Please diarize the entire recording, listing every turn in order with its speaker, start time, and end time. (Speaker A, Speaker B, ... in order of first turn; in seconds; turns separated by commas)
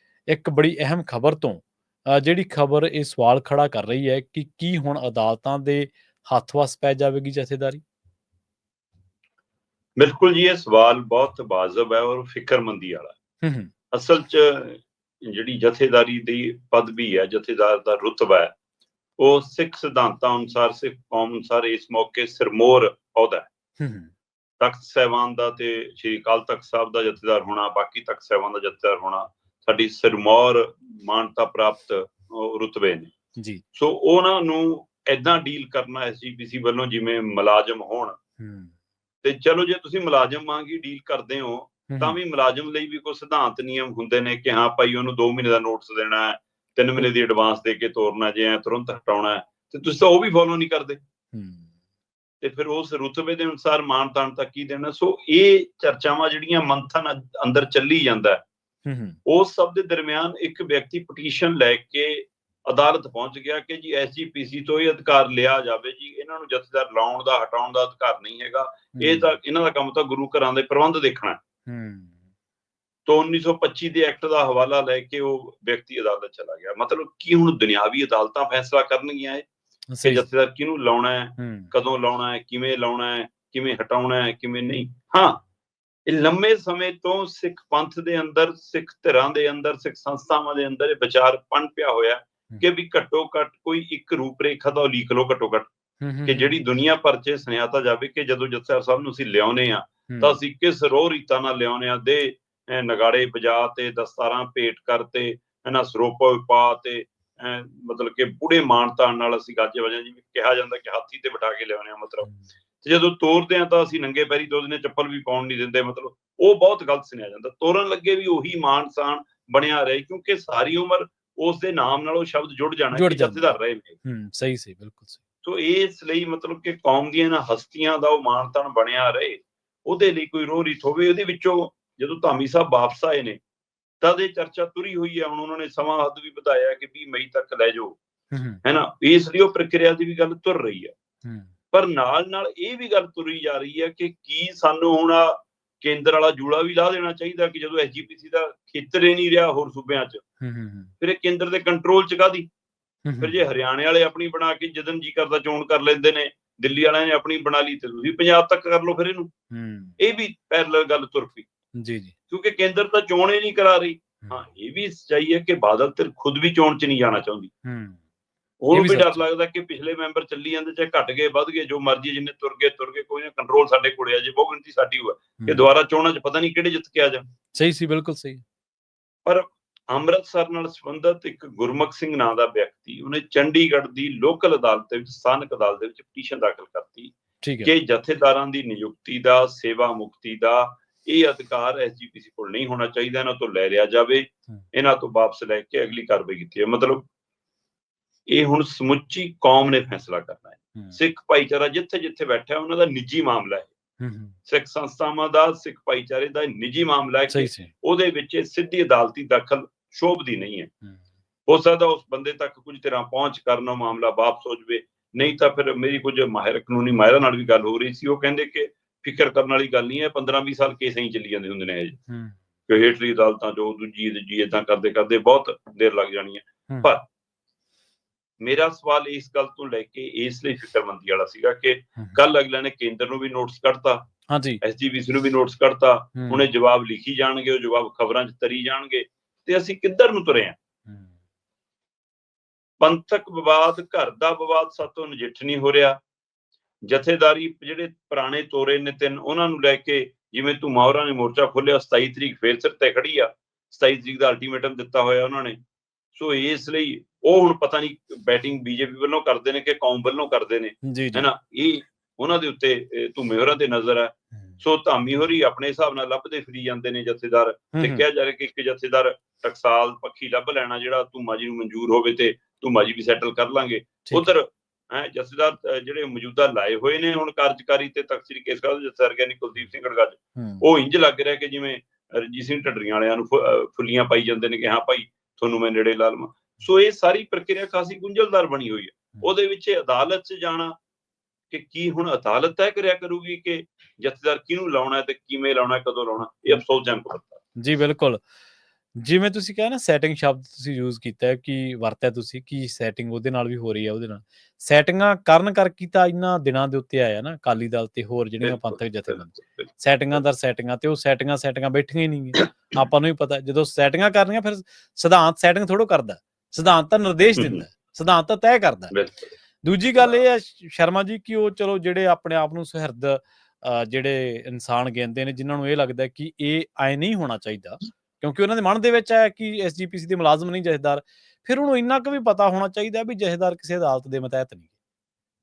Speaker A: 0.3-7.8, Speaker B: 10.0-13.2, Speaker A: 13.4-13.7, Speaker B: 13.9-18.5, Speaker B: 19.2-23.5, Speaker A: 23.8-24.1, Speaker B: 24.6-33.1, Speaker A: 33.4-33.6, Speaker B: 33.8-38.2, Speaker A: 38.4-38.7, Speaker B: 39.2-51.0, Speaker A: 41.9-42.2, Speaker A: 51.3-51.7, Speaker B: 52.4-58.4, Speaker A: 58.9-59.2, Speaker B: 59.3-71.4, Speaker A: 69.0-69.3, Speaker A: 71.7-72.2, Speaker B: 73.1-79.5, Speaker A: 79.9-80.2, Speaker B: 80.0-85.4, Speaker A: 81.4-81.7, Speaker B: 86.1-95.7, Speaker A: 96.0-96.5, Speaker B: 96.2-112.3, Speaker A: 100.1-100.4, Speaker B: 112.8-124.0, Speaker A: 122.9-125.2, Speaker B: 125.4-133.4, Speaker B: 134.0-138.0, Speaker A: 138.3-138.6, Speaker B: 138.6-140.9, Speaker A: 141.2-141.5, Speaker B: 141.7-150.2, Speaker A: 150.4-150.9, Speaker B: 151.0-152.5, Speaker A: 153.1-153.4, Speaker B: 153.2-159.3, Speaker A: 159.5-160.0, Speaker B: 160.0-161.5, Speaker A: 161.8-162.1, Speaker B: 162.3-167.5, Speaker A: 167.7-168.0, Speaker B: 168.6-177.3, Speaker A: 168.7-169.2, Speaker A: 177.6-178.4, Speaker B: 179.2-197.1, Speaker A: 187.4-187.7, Speaker B: 198.3-203.7, Speaker A: 204.0-204.4, Speaker B: 204.5-210.7, Speaker A: 207.3-207.7, Speaker B: 211.5-222.0, Speaker A: 222.1-222.4, Speaker B: 222.7-227.1, Speaker B: 228.4-234.1, Speaker A: 234.3-234.6, Speaker B: 234.6-240.6, Speaker A: 236.2-236.4, Speaker A: 240.9-241.1, Speaker B: 242.8-246.0, Speaker B: 246.8-255.6, Speaker B: 256.1-290.8, Speaker A: 260.9-261.3, Speaker A: 267.8-268.0, Speaker A: 274.1-274.3, Speaker A: 280.4-280.6, Speaker B: 291.5-297.4, Speaker A: 297.6-298.2, Speaker A: 299.0-318.9, Speaker B: 308.4-309.7, Speaker B: 317.4-317.6, Speaker B: 318.9-319.3, Speaker A: 319.6-334.7